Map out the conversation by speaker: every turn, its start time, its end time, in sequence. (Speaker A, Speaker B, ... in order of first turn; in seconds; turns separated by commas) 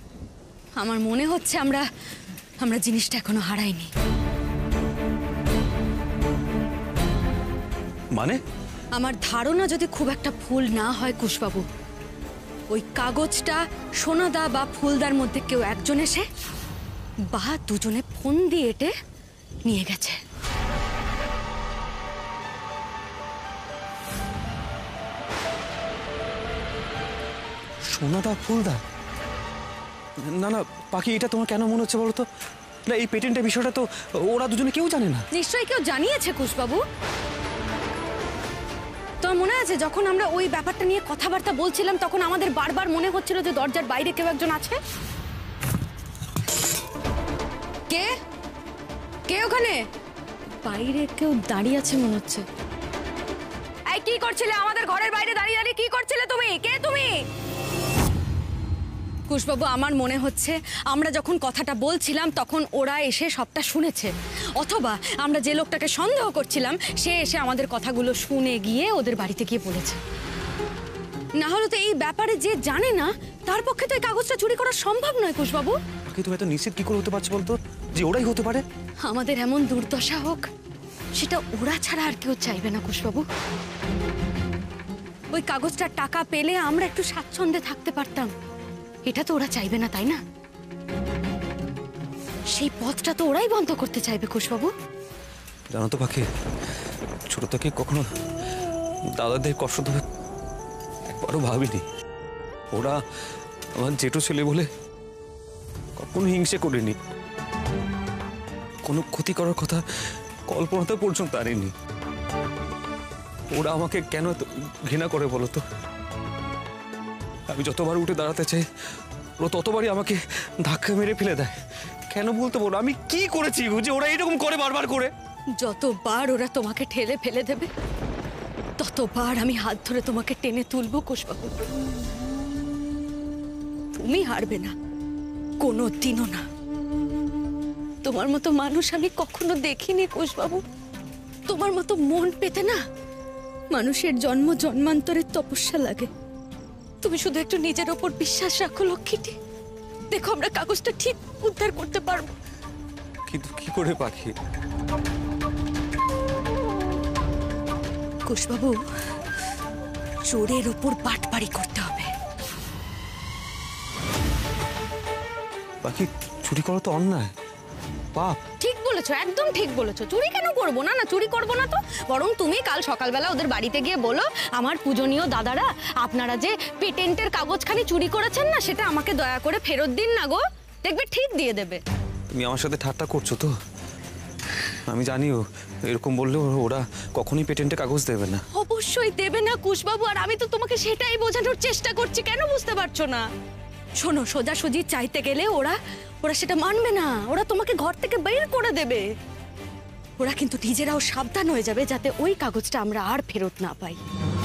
Speaker A: 0.8-1.8, Speaker A: 2.6-3.9, Speaker B: 8.1-8.4, Speaker A: 8.9-11.7, Speaker A: 12.7-16.2, Speaker A: 17.3-18.9, Speaker A: 19.6-20.2, Speaker B: 27.9-28.8, Speaker B: 30.2-32.2, Speaker B: 32.9-35.2, Speaker A: 35.3-36.8, Speaker A: 39.2-44.8, Speaker A: 49.3-49.8, Speaker A: 50.6-52.4, Speaker A: 53.9-57.1, Speaker A: 59.3-70.0, Speaker A: 71.4-75.8, Speaker B: 76.1-78.6, Speaker A: 79.0-80.5, Speaker A: 81.1-83.2, Speaker A: 85.3-88.3, Speaker A: 89.0-90.2, Speaker A: 92.5-94.7, Speaker B: 95.7-96.2, Speaker B: 97.3-98.0, Speaker B: 99.1-100.0, Speaker B: 101.1-101.8, Speaker B: 102.7-103.0, Speaker B: 103.7-104.7, Speaker B: 106.0-107.0, Speaker B: 108.8-109.8, Speaker B: 110.5-111.7, Speaker B: 113.5-115.6, Speaker B: 117.5-118.6, Speaker B: 119.4-121.6, Speaker B: 122.1-125.1, Speaker A: 125.6-127.7, Speaker A: 128.8-131.6, Speaker A: 133.9-134.7, Speaker A: 135.6-136.4, Speaker A: 138.0-140.6, Speaker A: 141.5-142.8, Speaker A: 143.7-146.1, Speaker A: 147.0-149.3, Speaker A: 150.1-152.3, Speaker B: 153.3-154.3, Speaker A: 158.2-158.8, Speaker A: 160.3-162.1, Speaker B: 165.8-167.3, Speaker B: 168.1-168.4, Speaker A: 168.6-181.8, Speaker B: 182.3-183.5, Speaker B: 184.9-188.4, Speaker A: 188.5-193.3, Speaker A: 194.0-199.0, Speaker A: 200.2-204.0